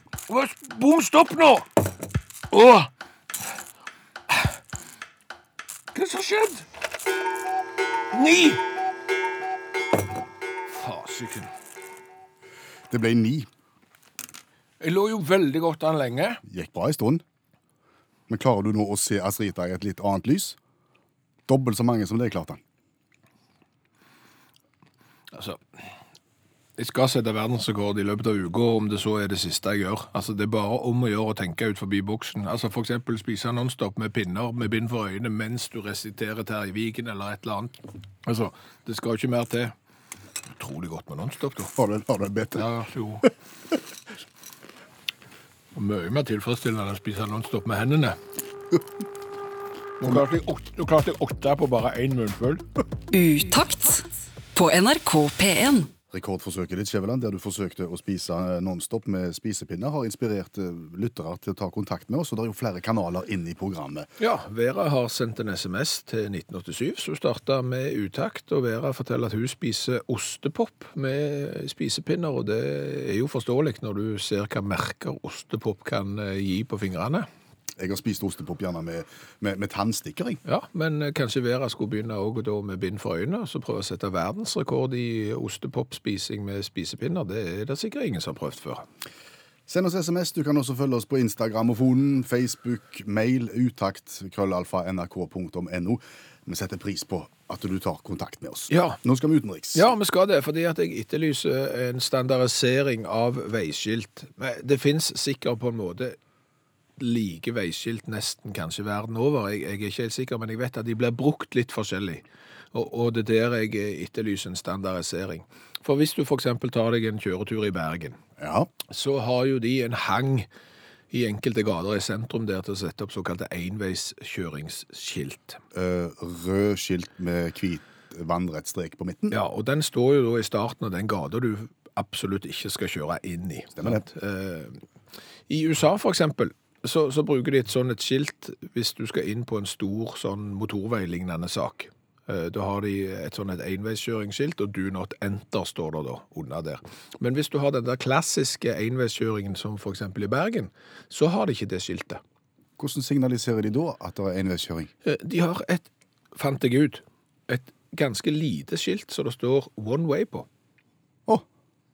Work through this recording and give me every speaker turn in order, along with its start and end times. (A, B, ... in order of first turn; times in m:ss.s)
0:00.3-0:01.7 A
0:02.5-0:02.9 A
0:05.9-0:06.7 A
0:08.1-0:08.6 A
0:10.7-0:11.5 A
0:12.9-0:13.5 B
0:14.8-0:16.4 A
0:16.5-0:17.2 B
0:18.3-0:20.6 B
0:21.5-0:22.6 B
0:25.3-0:25.6 A
0:26.8-0:39.7 A
0:40.6-0:41.7 A
0:41.8-0:42.7 B
0:42.6-0:43.3 A
0:45.7-0:48.2 A
0:50.0-0:52.7 A
0:53.1-0:55.9 C
0:56.1-1:04.1 B
1:04.2-1:17.3 A
1:17.8-1:20.4 B
1:20.4-1:28.9 A
1:29.7-1:39.9 B
1:38.7-1:39.0 A
1:39.8-1:46.2 A
1:47.0-1:58.2 A
1:58.4-1:58.7 B
1:58.9-2:00.5 A
2:01.1-2:05.6 A
2:05.7-2:09.4 B
2:09.3-2:14.8 A
2:13.8-2:14.0 B
2:15.5-2:32.2 A
2:32.8-2:34.9 B
2:35.0-2:40.5 A